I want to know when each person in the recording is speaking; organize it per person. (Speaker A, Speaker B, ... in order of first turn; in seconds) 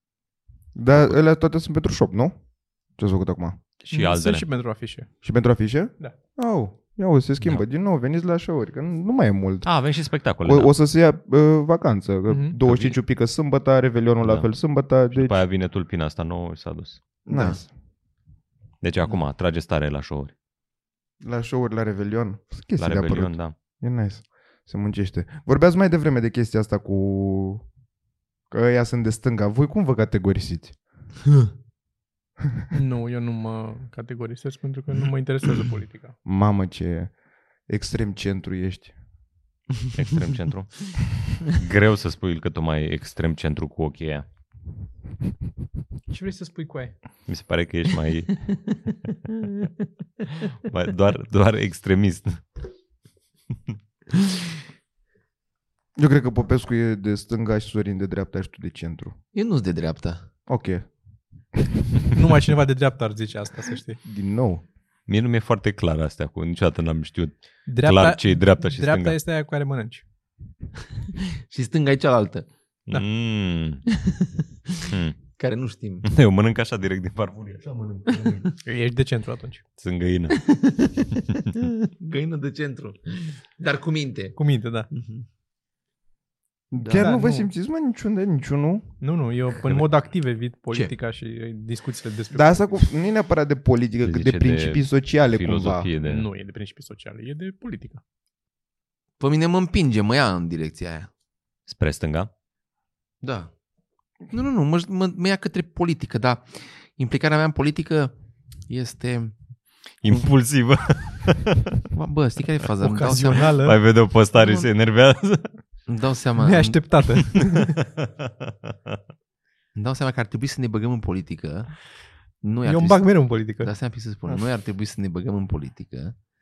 Speaker A: 0.7-2.3, 3.0-3.6, 5.2-9.7, 10.4-15.4, 17.3-17.7, 21.2-27.6, 28.5-30.8, 36.2-37.1, 37.7-38.9, 56.0-59.1, 60.5-60.9, 64.0-64.6, 86.7-88.9, 92.3-95.9
Speaker B: 3.8-4.4, 9.6-10.7, 12.6-12.9, 14.2-14.5, 15.1-17.0, 18.8-20.3, 22.8-23.5, 39.9-44.2, 47.3-48.7, 50.5-52.4, 65.1-69.2, 72.9-73.8, 74.9-75.2, 76.0-78.2, 79.8-80.4, 94.0-96.2, 101.7-102.3, 110.0-111.8, 113.1-115.5
Speaker C: 3.9-5.1, 12.3-12.6, 32.7-36.1, 46.1-46.9, 62.1-64.0, 67.7-70.0, 78.6-79.6, 84.3-84.9, 87.0-87.5, 89.0-92.8, 96.0-98.0, 112.8-113.8, 116.4-117.8, 122.6-123.7
Speaker D: 17.3-17.6, 59.3-60.2, 71.4-72.5, 73.9-76.0, 77.9-78.5, 80.4-84.3, 84.9-85.2, 86.8-87.1, 99.2-101.1, 103.2-103.5, 104.3-108.1, 108.7-109.3, 111.9-113.7, 114.3-114.7, 115.9-116.8, 119.7-121.8, 122.4-126.2